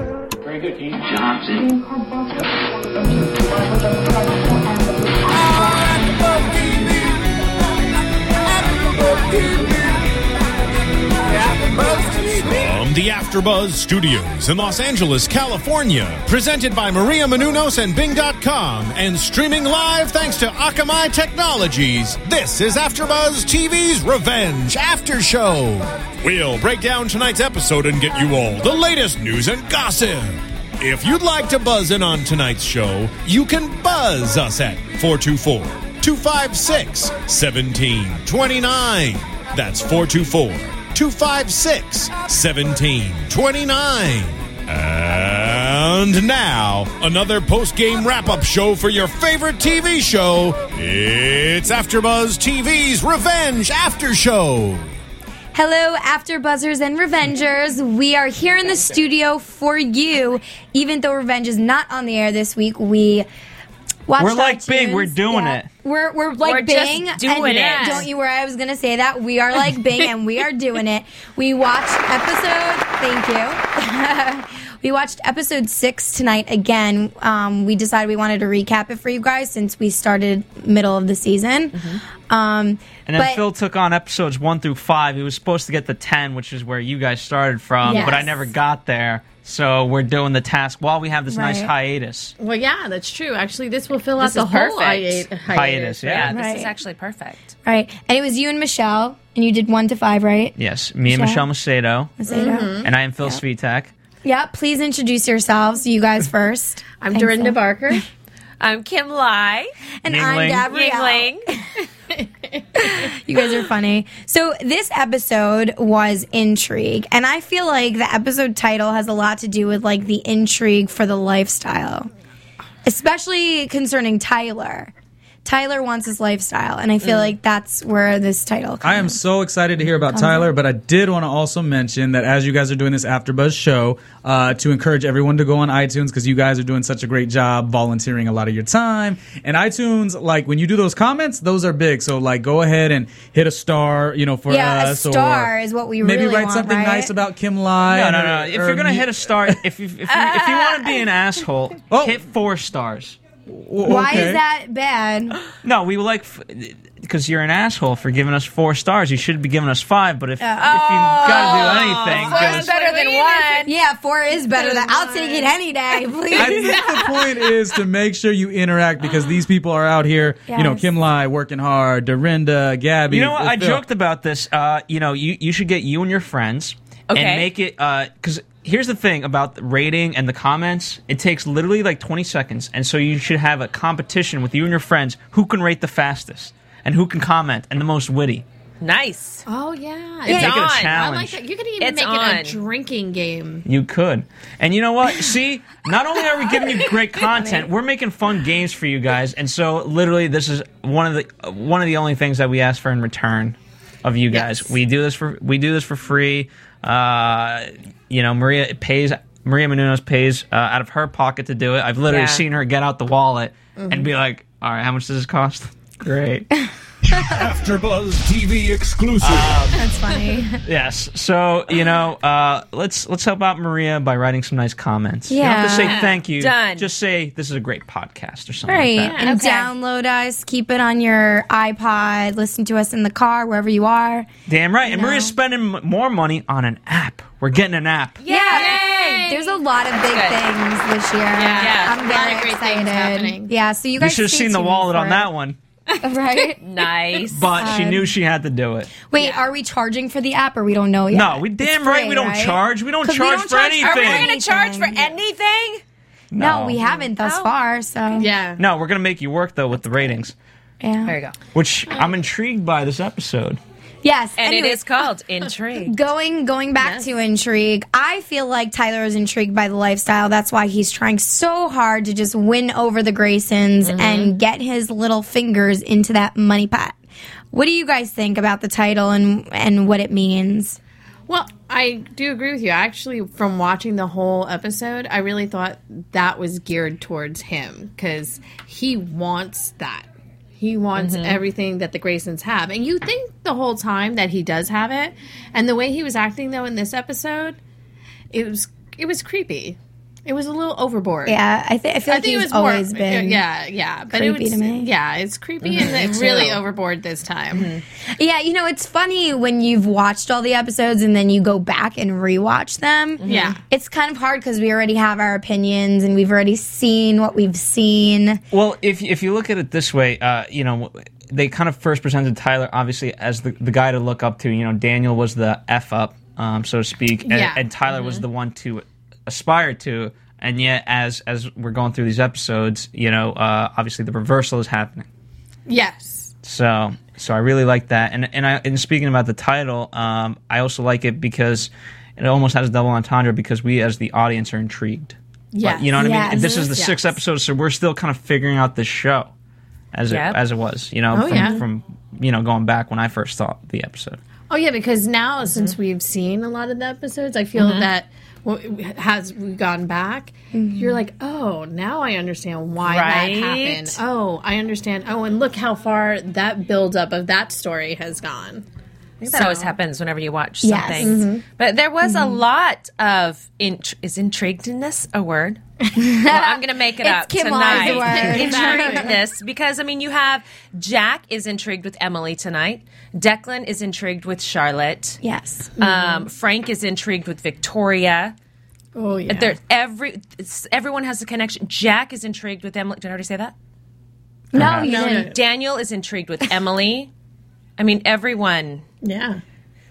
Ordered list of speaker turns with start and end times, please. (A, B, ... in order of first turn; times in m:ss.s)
0:00.5-0:01.7 A
0:05.2-0:07.3 A
0:08.4-0:10.0 A
0:11.3-0:54.9 A
0:55.5-1:03.3 B
1:04.1-1:23.4 B
1:04.2-1:05.7 C
1:06.4-1:08.1 D
1:07.4-1:08.1 E
1:21.7-1:22.0 D
1:23.0-1:32.3 C
1:27.8-1:28.3 B
1:27.8-1:28.4 E
1:31.3-1:31.7 B
1:32.4-1:36.0 E
1:34.2-1:35.3 D
1:35.5-1:36.3 C
1:36.0-1:37.5 D
1:36.3-1:36.7 B
1:37.6-1:40.5 B
1:40.6-1:42.2 C
1:41.1-1:41.4 B
1:42.2-1:43.4 B
1:42.3-1:42.9 E
1:42.8-1:43.9 C
1:44.2-1:48.0 B
1:47.0-1:48.1 E
1:48.6-1:49.7 D
1:50.0-1:51.7 B
1:50.0-1:50.7 C
1:50.7-1:51.5 D
1:52.1-1:52.9 E
1:52.8-2:02.1 B
2:02.8-2:04.9 B
2:05.4-2:09.2 B
2:07.0-2:07.3 D
2:08.8-2:25.5 F
2:10.1-2:10.5 B
2:24.5-2:27.1 B
2:26.0-2:29.6 F
2:27.9-2:33.2 C
2:31.9-2:32.2 F
2:33.5-2:34.4 F
2:33.8-2:35.4 B
2:35.6-2:42.7 C
2:40.4-2:41.6 B
2:40.6-2:43.7 D
2:41.4-2:43.7 E
2:43.6-2:47.0 B
2:44.6-2:45.5 D
2:46.4-2:53.8 F
2:46.8-2:47.2 E
2:50.5-2:50.9 B
2:53.1-3:08.4 C
2:57.1-2:57.5 D
3:08.8-3:09.4 D
3:09.5-3:13.6 E
3:10.3-3:11.4 C
3:10.3-3:11.0 D
3:11.8-3:12.6 D
3:13.6-3:36.5 C
3:17.4-3:17.7 B
3:24.3-3:24.7 E
3:32.1-3:32.4 D
3:33.8-3:34.1 E
3:36.6-3:37.4 B
3:37.1-3:39.7 A
3:39.2-3:39.8 C
3:39.7-3:40.6 B
3:40.6-3:49.2 C
3:45.3-3:46.0 B
3:45.8-3:46.2 E
3:46.3-3:46.9 D
3:48.6-3:54.3 B
3:49.1-3:49.4 E
3:49.2-3:49.7 D
3:54.5-3:58.2 C
3:54.8-3:55.4 B
3:58.2-4:00.4 D
3:58.3-4:05.3 B
3:58.5-3:59.4 E
4:01.4-4:03.5 E
4:01.4-4:02.0 D
4:04.0-4:05.6 C
4:05.9-4:07.2 E
4:06.0-4:06.6 B
4:06.6-4:07.5 D
4:07.3-4:08.9 C
4:07.5-4:08.1 B
4:09.1-4:15.1 B
4:11.1-4:14.3 C
4:13.8-4:15.8 D
4:16.3-4:16.8 C
4:16.4-4:18.3 B
4:16.8-4:17.5 D
4:18.1-4:18.6 E
4:18.6-4:20.3 C
4:20.8-4:21.1 B
4:21.0-4:21.3 D
4:21.5-4:23.6 C
4:24.0-4:24.8 B
4:24.4-4:26.0 D
4:25.8-4:37.0 B
4:26.8-4:27.0 E
4:33.8-4:34.3 D
4:37.5-4:40.8 B
4:41.3-4:57.6 E
4:51.0-4:51.4 D
4:58.3-5:01.4 E
5:01.2-5:03.4 B
5:02.1-5:07.7 E
5:04.1-5:04.9 B
5:05.6-5:06.6 D
5:07.5-5:07.8 D
5:08.0-5:18.4 B
5:13.2-5:13.6 D
5:13.2-5:13.6 E
5:18.5-5:35.0 C
5:27.2-5:27.6 E
5:27.9-5:28.2 D
5:35.7-5:36.3 E
5:36.4-5:49.3 C
5:45.5-5:47.1 E
5:45.9-5:46.7 B
5:49.9-5:54.2 C
5:50.1-5:50.4 D
5:51.1-5:51.6 E
5:51.3-5:51.6 D
5:54.5-6:08.6 E
5:55.4-5:55.7 D
5:57.6-5:57.9 D
6:00.5-6:01.0 B
6:02.8-6:04.0 D
6:09.2-6:09.7 E
6:09.3-6:15.6 D
6:10.6-6:11.2 B
6:11.0-6:11.4 E
6:12.0-6:12.4 B
6:16.0-6:19.1 B
6:16.1-6:25.2 D
6:17.7-6:19.2 E
6:25.2-6:25.7 B
6:25.8-6:26.3 E
6:25.8-6:28.3 D
6:28.9-6:29.5 E
6:29.3-6:33.5 D
6:34.5-6:35.3 B
6:34.5-6:34.9 C
6:34.8-6:35.4 E
6:34.8-6:37.1 D
6:37.8-6:38.8 D
6:39.0-6:39.4 E